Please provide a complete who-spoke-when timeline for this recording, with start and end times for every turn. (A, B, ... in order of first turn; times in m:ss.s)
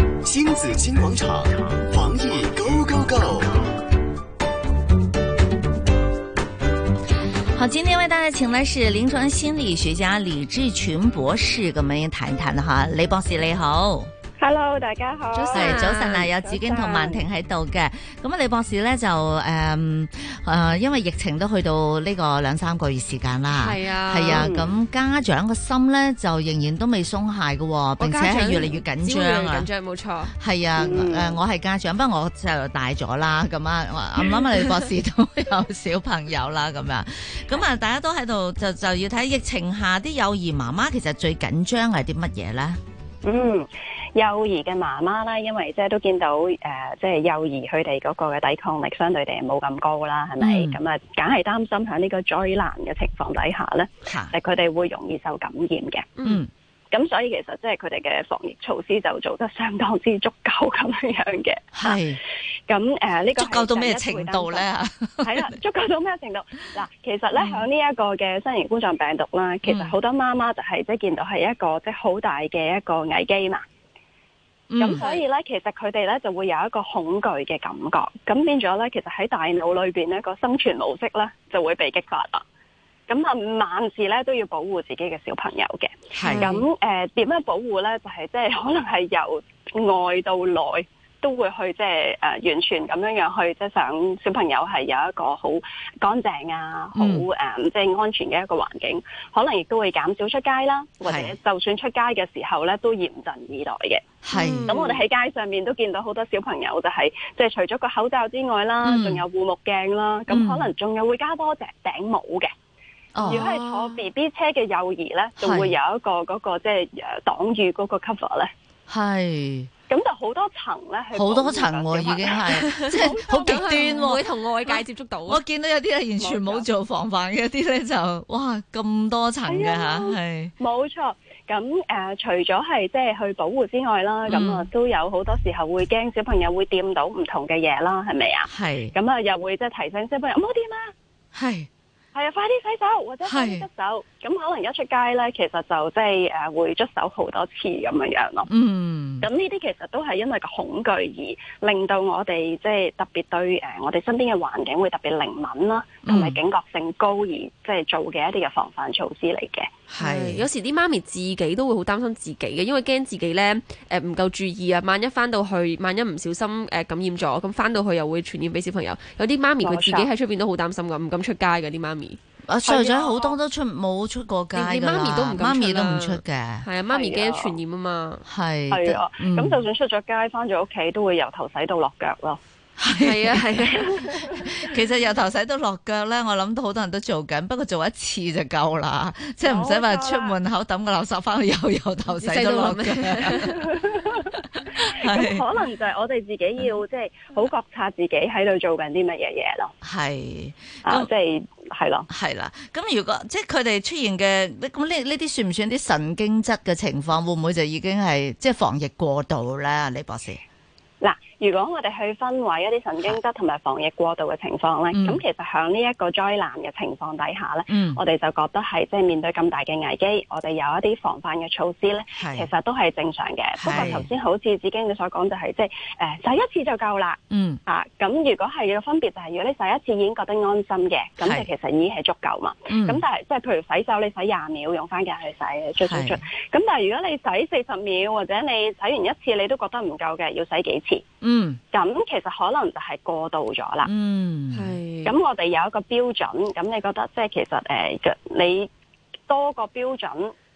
0:00.2-0:03.5 A
0:07.5-0:14.1 B
0:14.4-0:17.3 C
0:15.3-0:16.3 D
0:15.5-0:29.7 B
0:23.5-0:24.5 D
0:24.3-0:24.7 C
0:28.0-0:30.3 D
0:30.4-0:42.8 B
0:30.8-0:31.4 C
0:43.2-0:56.2 C
0:50.4-0:50.8 B
0:54.1-0:54.3 B
0:56.2-0:56.5 B
0:56.9-1:02.0 C
1:01.7-1:02.2 B
1:02.7-1:04.7 C
1:03.4-1:05.5 B
1:05.2-1:13.6 C
1:07.4-1:07.6 B
1:09.6-1:09.9 B
1:14.7-1:15.0 B
1:14.8-1:22.4 C
1:14.8-1:15.2 D
1:23.1-1:44.1 C
1:26.1-1:26.5 B
1:26.2-1:26.6 D
1:37.0-1:37.3 B
1:41.0-1:41.4 B
1:44.2-1:44.8 B
1:44.3-1:45.0 D
1:44.7-1:52.5 C
1:48.8-1:49.2 B
1:50.3-1:50.7 B
1:53.1-1:53.5 B
1:53.2-1:58.5 C
1:53.3-1:54.0 D
1:55.4-1:55.7 B
1:58.9-1:59.7 B
1:59.9-2:04.1 C
2:01.1-2:10.5 B
2:02.4-2:05.4 D
2:06.2-2:06.7 C
2:09.5-2:20.9 C
2:14.3-2:14.7 B
2:18.5-2:18.9 B
2:21.3-2:21.7 B
2:22.1-2:28.5 C
2:23.3-2:23.7 B
2:28.5-2:29.3 B
2:29.2-2:39.7 C
2:36.0-2:36.4 B
2:39.9-2:40.5 B
2:40.0-2:52.2 D
2:49.6-2:50.1 C
2:52.5-2:56.7 B
2:52.6-2:53.4 C
2:54.5-2:58.3 D
2:56.9-2:57.6 C
2:58.3-2:59.6 B
2:58.7-3:02.4 C
3:02.8-3:13.7 B
3:02.9-3:04.1 D
3:03.7-3:04.4 C
3:09.4-3:10.4 C
3:12.1-3:13.5 D
3:13.5-3:14.3 C
3:14.5-3:15.5 B
3:14.9-3:19.7 C
3:19.8-3:21.1 B
3:20.8-3:22.1 C
3:22.1-3:30.4 B
3:31.0-4:01.0 C
3:34.9-3:35.2 B
3:37.7-3:38.0 B
3:42.2-3:42.5 B
3:43.6-3:44.1 B
3:47.3-3:47.6 B
3:51.2-3:51.5 B
3:52.7-3:53.0 B
3:55.8-3:56.2 B
4:01.2-4:01.6 B
4:01.7-4:03.9 C
4:03.8-4:04.8 B
4:04.5-4:05.2 D
4:05.0-4:08.7 C
4:09.3-4:10.3 C